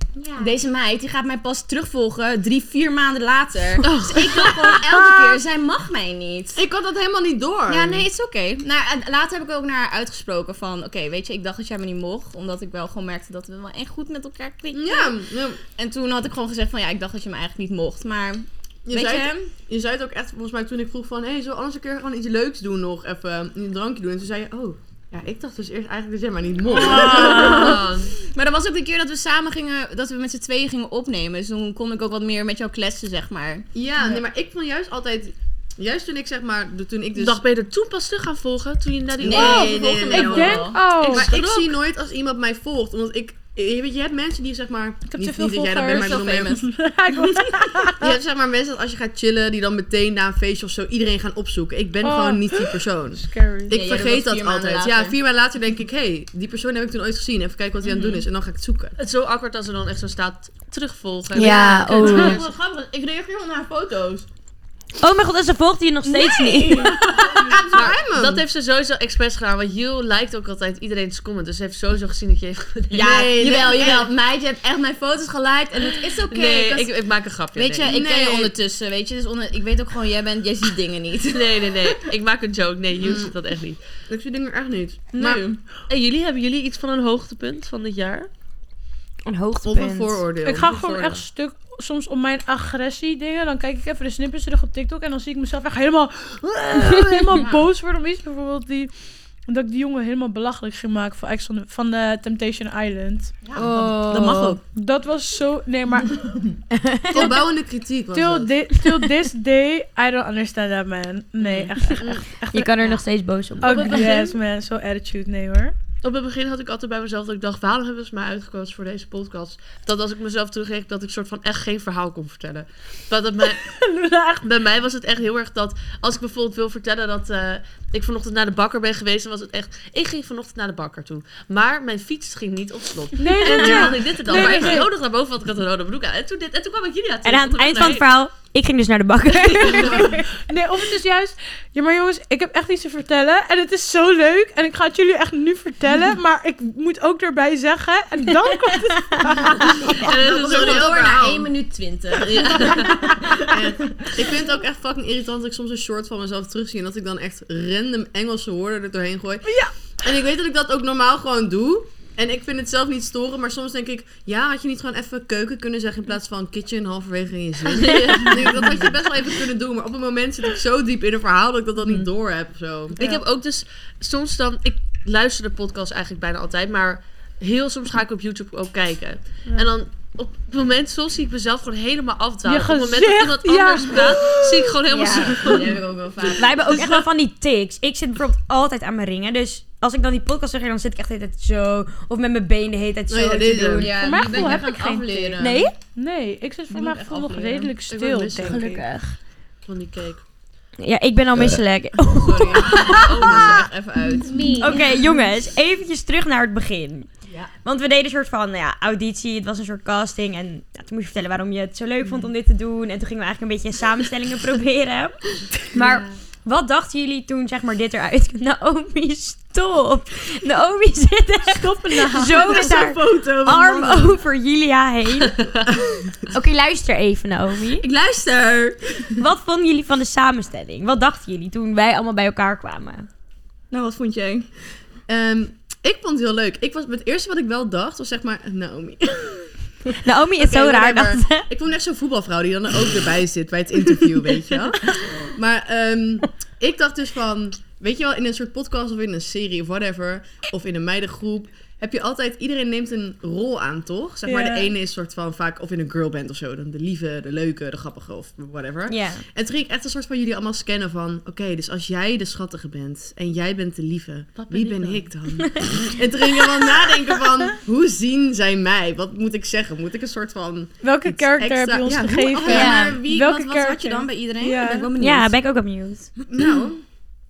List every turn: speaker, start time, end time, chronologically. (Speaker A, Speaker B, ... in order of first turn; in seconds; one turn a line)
Speaker A: 0.4-6.6
Speaker B: 3.8-5.0
Speaker C: 6.5-8.1
Speaker A: 7.7-15.1
Speaker C: 14.7-15.6
Speaker A: 15.8-19.5
Speaker C: 18.9-28.0
Speaker A: 26.7-33.6
Speaker B: 26.9-28.1
Speaker C: 33.7-37.4
Speaker B: 37.1-40.2
Speaker C: 39.2-46.6
Speaker A: 39.2-40.8
Speaker D: 40.0-41.3
Speaker B: 41.0-41.7
Speaker D: 45.1-48.1
Speaker A: 45.8-46.7
Speaker C: 47.8-59.0
Speaker D: 52.0-53.7
Speaker A: 53.7-55.1
Speaker A: 57.8-58.2
Speaker B: 59.0-62.5
Speaker E: 61.3-62.4
Speaker A: 61.3-64.2
Speaker E: 65.0-67.0
Speaker A: 66.0-67.7
Speaker C: 67.5-68.4
Speaker B: 67.7-73.3
Speaker A: 72.9-76.9
Speaker C: 72.9-74.1
Speaker B: 76.2-77.9
Speaker A: 77.5-82.0
Speaker C: 77.8-78.5
Speaker B: 81.3-83.8
Speaker C: 83.0-83.3
Speaker C: 84.1-85.5
Speaker A: 85.1-85.6
Speaker B: 85.9-88.3
Speaker E: 89.2-90.2
Speaker C: 89.6-91.2
Speaker D: 90.4-98.9
Speaker D: 99.5-103.3
Speaker A: 103.5-104.6
Speaker E: 103.7-104.4
Speaker C: 104.1-104.6
Speaker D: 104.7-106.3
Speaker E: 106.7-107.3
Speaker C: 107.1-108.5
Speaker D: 108.1-113.0
Speaker B: 111.4-112.2
Speaker E: 112.5-114.3
Speaker D: 113.6-115.7
Speaker B: 116.0-123.8
Speaker D: 123.4-124.5
Speaker B: 124.4-138.1
Speaker D: 133.2-134.9
Speaker E: 133.5-133.9
Speaker E: 137.2-140.3
Speaker B: 139.4-140.1
Speaker D: 139.8-150.1
Speaker E: 148.6-149.7
Speaker A: 149.9-154.1
Speaker B: 149.9-150.9
Speaker C: 150.1-151.5
Speaker B: 152.3-153.0
Speaker D: 152.7-153.4
Speaker C: 153.4-173.0
Speaker D: 159.4-159.7
Speaker B: 167.7-168.6
Speaker B: 172.9-185.8
Speaker D: 182.4-184.8
Speaker A: 184.9-186.7
Speaker E: 185.0-185.3
Speaker E: 186.3-194.0
Speaker B: 186.7-187.0
Speaker C: 193.1-193.9
Speaker A: 193.7-195.7
Speaker D: 193.9-198.8
Speaker E: 195.4-195.8
Speaker A: 196.7-197.7
Speaker C: 197.9-198.6
Speaker E: 198.4-199.0
Speaker B: 199.7-200.2
Speaker E: 200.8-203.5
Speaker A: 202.1-204.8
Speaker B: 202.7-203.7
Speaker D: 204.4-204.6
Speaker E: 204.5-207.1
Speaker E: 207.6-225.5
Speaker D: 221.4-222.7
Speaker A: 222.2-224.2
Speaker B: 225.2-225.7
Speaker E: 226.2-227.8
Speaker A: 227.8-229.1
Speaker E: 229.2-233.1
Speaker A: 233.7-234.5
Speaker C: 235.1-239.5
Speaker E: 240.0-241.4
Speaker C: 240.4-272.9
Speaker D: 254.2-254.7
Speaker E: 258.9-259.2
Speaker B: 264.4-265.1
Speaker E: 265.4-265.8
Speaker D: 270.8-274.9
Speaker A: 272.3-275.3
Speaker E: 272.5-273.0
Speaker E: 275.0-276.1
Speaker C: 276.3-276.8